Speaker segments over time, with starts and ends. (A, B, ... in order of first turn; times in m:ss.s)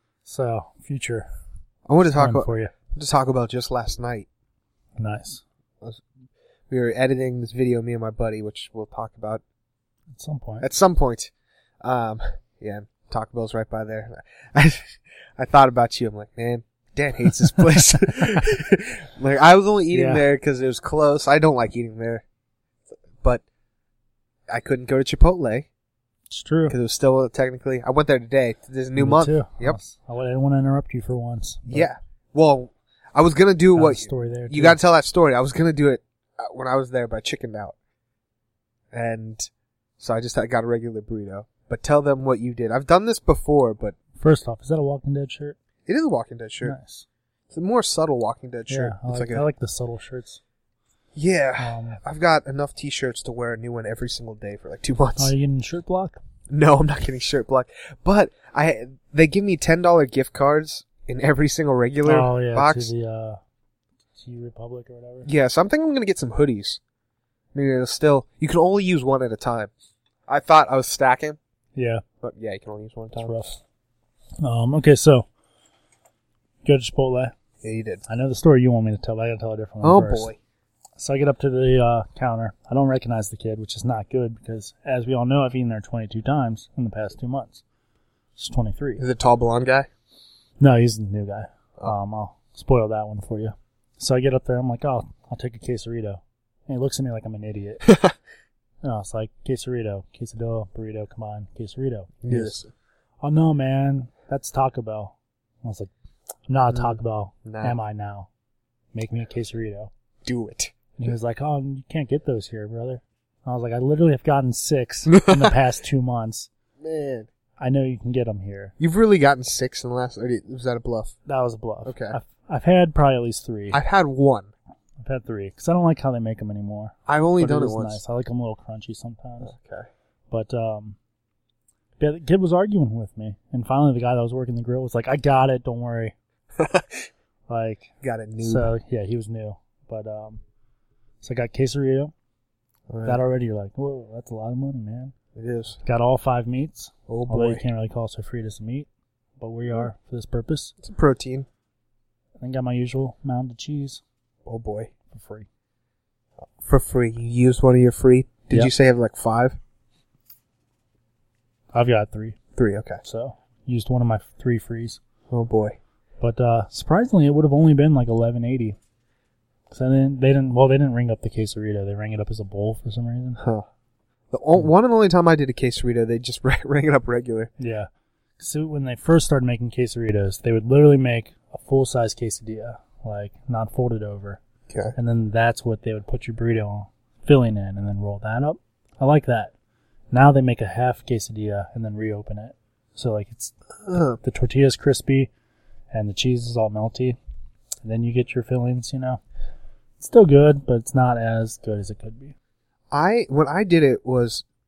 0:00.2-0:01.3 A
0:01.8-0:04.3 B
0:02.0-0:02.7 A
0:05.0-0:05.4 A
0:06.7-0:09.4 B
0:10.1-0:10.7 A
0:10.6-0:11.3 B
0:11.8-0:22.2 B
0:17.6-0:18.4 A
0:19.9-0:20.2 A
0:24.5-0:25.7 B
0:26.3-0:26.8 A
0:26.7-0:29.8 B
0:29.0-0:31.9 A
0:31.6-0:37.7 B
0:33.7-0:34.8 A
0:38.9-0:43.9 B
0:44.2-0:45.6 A
0:45.9-0:46.8 B
0:46.6-0:47.0 A
0:47.5-0:49.4 B
0:48.7-0:50.4 A
0:51.1-0:55.3 B
0:51.6-0:52.0 A
0:55.2-0:56.2 A
0:56.5-1:02.9 B
1:02.0-1:03.4 A
1:04.2-1:05.3 A
1:05.2-1:06.8 B
1:07.5-1:09.7 B
1:10.3-1:11.4 B
1:11.7-1:12.0 A
1:12.2-1:13.3 B
1:13.2-1:13.6 A
1:14.4-1:15.3 A
1:16.6-1:17.3 A
1:17.6-1:18.0 B
1:18.0-1:20.3 A
1:19.8-1:20.4 B
1:21.0-1:27.6 A
1:28.4-1:29.0 A
1:29.0-1:29.9 B
1:30.6-1:37.9 A
1:37.8-1:38.1 B
1:38.8-1:42.6 A
1:42.2-1:42.7 B
1:43.2-1:45.9 A
1:46.5-1:48.3 A
1:46.7-1:47.8 B
1:48.9-1:49.9 A
1:50.2-1:50.7 B
1:51.0-1:56.5 A
1:55.1-1:55.5 B
1:56.8-1:57.3 B
1:57.6-1:58.7 A
1:58.8-2:01.1 B
2:01.2-2:03.8 A
2:01.8-2:02.2 B
2:03.7-2:04.5 B
2:05.0-2:09.5 A
2:07.1-2:08.0 B
2:09.4-2:09.9 B
2:10.3-2:11.0 A
2:12.0-2:16.1 A
2:16.6-2:17.1 B
2:17.5-2:17.9 A
2:18.0-2:18.7 B
2:18.4-2:20.4 A
2:21.2-2:22.1 A
2:22.9-2:23.2 B
2:23.0-2:25.1 A
2:25.3-2:25.8 B
2:25.8-2:30.7 A
2:27.1-2:27.6 B
2:30.8-2:31.5 B
2:32.4-2:34.0 A
2:34.4-2:34.9 B
2:35.1-2:35.5 A
2:36.6-2:39.6 B
2:41.7-2:42.4 A
2:42.6-2:43.0 B
2:43.0-2:45.0 A
2:45.3-2:45.8 B
2:46.2-2:48.8 A
2:49.7-2:53.4 A
2:53.4-2:53.6 B
2:54.3-2:57.5 B
2:57.6-3:04.4 A
3:04.7-3:04.9 B
3:04.9-3:09.5 A
3:10.1-3:13.5 A
3:13.8-3:14.2 B
3:14.2-3:15.3 A
3:15.9-3:17.2 A
3:17.8-3:19.2 A
3:20.0-3:22.4 A
3:22.9-3:24.4 B